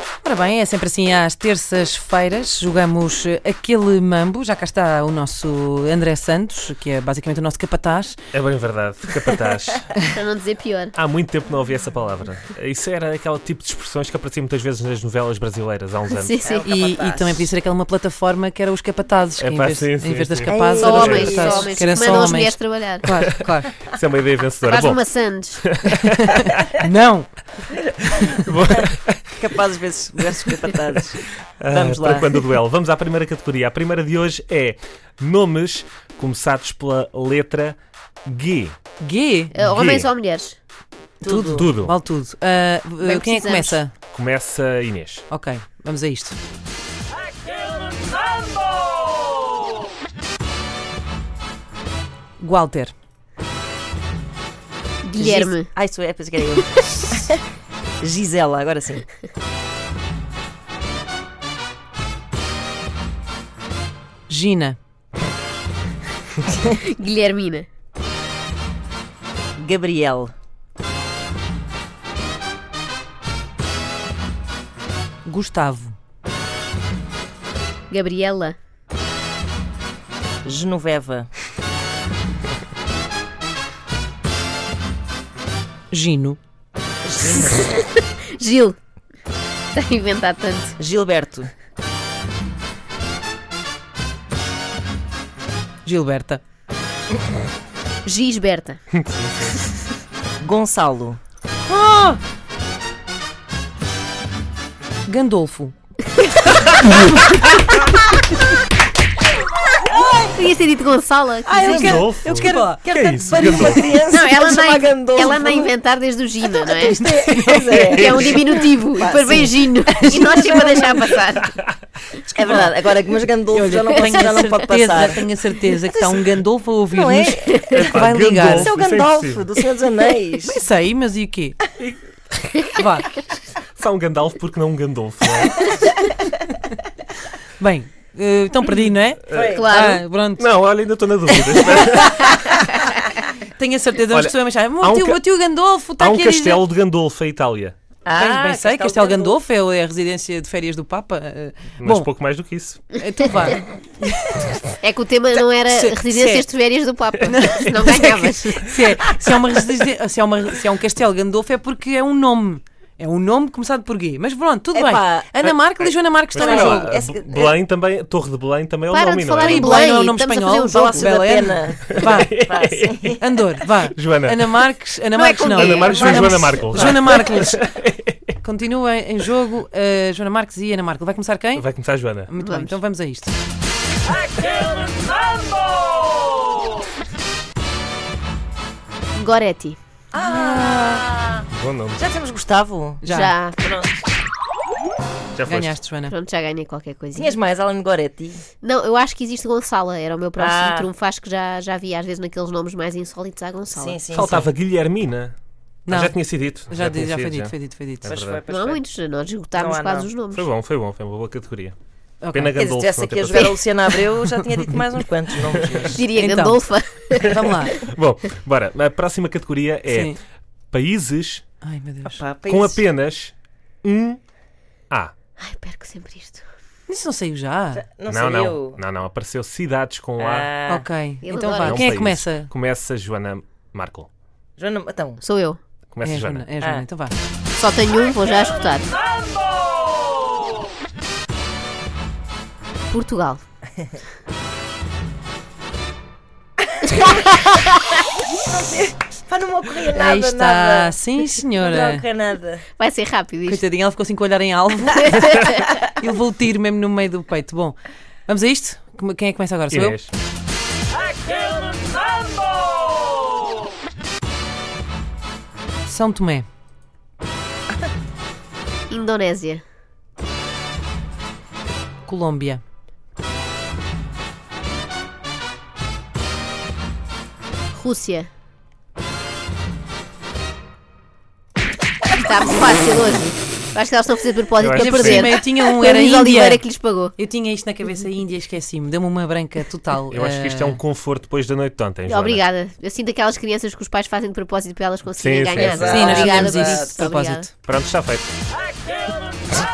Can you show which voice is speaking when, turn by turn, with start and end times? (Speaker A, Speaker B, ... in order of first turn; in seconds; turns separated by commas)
Speaker A: 0.2-8.2, Speaker B: 8.3-9.9, Speaker C: 10.0-10.9, Speaker B: 10.9-16.3, Speaker C: 16.1-16.7, Speaker D: 16.4-17.5, Speaker A: 16.6-23.7, Speaker B: 19.4-21.3, Speaker D: 20.5-21.9, Speaker C: 20.7-23.1, Speaker B: 23.8-25.0, Speaker C: 24.7-25.6, Speaker B: 25.6-26.6, Speaker A: 26.0-27.4, Speaker B: 28.0-29.4, Speaker D: 29.4-32.4, Speaker B: 30.2-30.8, Speaker B: 31.6-38.8, Speaker A: 39.0-39.6, Speaker C: 39.5-40.6, Speaker B: 39.6-40.1, Speaker D: 41.2-41.7, Speaker A: 41.2-43.9, Speaker B: 41.5-41.9, Speaker C: 43.0-43.8, Speaker B: 44.1-45.2, Speaker A: 45.3-46.4, Speaker A: 52.4-52.9, Speaker C: 55.0-55.7, Speaker D: 55.2-57.4, Speaker D: 58.0-59.0, Speaker A: 64.3-64.8, Speaker C: 66.6-67.7, Speaker D: 69.6-70.3, Speaker A: 75.2-76.0, Speaker C: 77.9-78.5, Speaker D: 80.4-81.3, Speaker A: 85.9-86.4, Speaker D: 87.0-87.7, Speaker C: 87.3-88.8, Speaker C: 89.7-90.8, Speaker D: 90.8-91.5, Speaker A: 95.8-96.4, Speaker C: 98.0-98.8, Speaker B: 98.9-99.7, Speaker D: 100.4-101.2, Speaker A: 101.7-102.2, Speaker A: 105.0-105.7, Speaker C: 106.2-106.6, Speaker C: 110.1-112.0, Speaker D: 111.5-115.7, Speaker B: 111.6-113.9, Speaker A: 111.6-113.8, Speaker C: 114.1-117.0, Speaker D: 116.7-121.2, Speaker A: 116.8-117.8, Speaker C: 117.8-121.6, Speaker B: 118.0-118.3, Speaker D: 122.3-125.2, Speaker A: 123.5-128.7, Speaker C: 124.0-124.5, Speaker D: 125.9-126.2, Speaker D: 126.9-130.6, Speaker C: 127.5-127.8, Speaker B: 127.7-129.4, Speaker A: 130.4-131.6, Speaker A: 132.7-133.1, Speaker B: 133.8-135.8, Speaker A: 137.6-140.5, Speaker B: 139.3-139.6, Speaker D: 139.3-139.9, Speaker C: 139.5-140.0, Speaker B: 140.4-142.6, Speaker A: 141.5-142.4, Speaker A: 143.3-146.6, Speaker B: 144.1-145.2, Speaker B: 146.0-147.8, Speaker D: 148.1-149.4, Speaker A: 148.1-152.1, Speaker B: 151.8-153.0, Speaker A: 152.9-154.6, Speaker C: 154.8-158.8, Speaker D: 155.7-156.4, Speaker A: 157.3-166.9, Speaker D: 164.7-167.5, Speaker B: 166.3-169.9, Speaker C: 168.9-171.1, Speaker A: 169.4-172.4, Speaker D: 170.7-173.2, Speaker B: 171.9-173.2, Speaker A: 173.2-177.6, Speaker B: 173.8-174.6, Speaker C: 175.2-176.1, Speaker D: 175.5-177.0, Speaker B: 175.6-178.3, Speaker A: 178.4-181.7, Speaker B: 181.5-182.3, Speaker A: 182.3-183.3, Speaker C: 182.4-182.8, Speaker C: 189.2-189.8, Speaker D: 190.1-191.4, Speaker A: 190.2-191.0, Speaker B: 191.5-192.0, Speaker D: 191.9-193.0, Speaker A: 193.0-193.3, Speaker C: 193.0-193.6, Speaker D: 193.6-193.9, Speaker B: 195.3-195.8, Speaker A: 195.4-196.1, Speaker C: 196.1-197.3, Speaker D: 197.1-198.4, Speaker C: 198.6-204.2, Speaker D: 200.4-200.9, Speaker D: 203.7-204.5, Speaker B: 204.1-205.3, Speaker A: 205.8-208.2, Speaker B: 205.9-208.4, Speaker D: 208.0-208.8, Speaker C: 208.5-210.5, Speaker D: 209.5-210.1, Speaker B: 210.3-211.8, Speaker A: 212.2-212.6, Speaker B: 212.3-213.6, Speaker D: 212.6-216.1, Speaker C: 213.3-214.0, Speaker C: 215.9-217.4, Speaker A: 216.1-216.6, Speaker A: 217.2-217.8, Speaker B: 217.2-220.2, Speaker A: 219.9-220.2, Speaker B: 220.7-221.4, Speaker A: 221.6-222.2, Speaker D: 222.0-222.8, Speaker B: 222.4-224.2, Speaker C: 225.4-226.4, Speaker A: 226.9-227.8, Speaker D: 227.7-228.8, Speaker B: 228.1-230.5, Speaker D: 230.2-230.9, Speaker A: 230.7-232.5, Speaker C: 231.2-231.8, Speaker B: 231.6-234.1, Speaker D: 234.6-235.2, Speaker C: 235.2-235.6, Speaker B: 235.9-236.5, Speaker A: 236.0-237.2, Speaker D: 236.6-236.8, Speaker C: 237.5-238.9, Speaker C: 242.9-243.4, Speaker D: 246.8-247.8, Speaker D: 248.4-251.0, Speaker A: 249.9-252.0, Speaker D: 251.5-252.7, Speaker C: 252.8-253.6, Speaker A: 253.4-260.0, Speaker C: 255.1-255.7, Speaker B: 259.7-260.1, Speaker A: 265.8-266.4, Speaker C: 268.9-269.6, Speaker A: 272.1-272.6, Speaker C: 277.7-278.3, Speaker C: 282.1-287.1, Speaker B: 284.6-285.4, Speaker A: 284.8-286.6, Speaker A: 287.1-290.8, Speaker B: 290.1-292.4, Speaker C: 292.1-297.4, Speaker B: 295.1-296.2, Speaker D: 295.6-297.1, Speaker A: 295.8-297.5, Speaker B: 297.6-298.3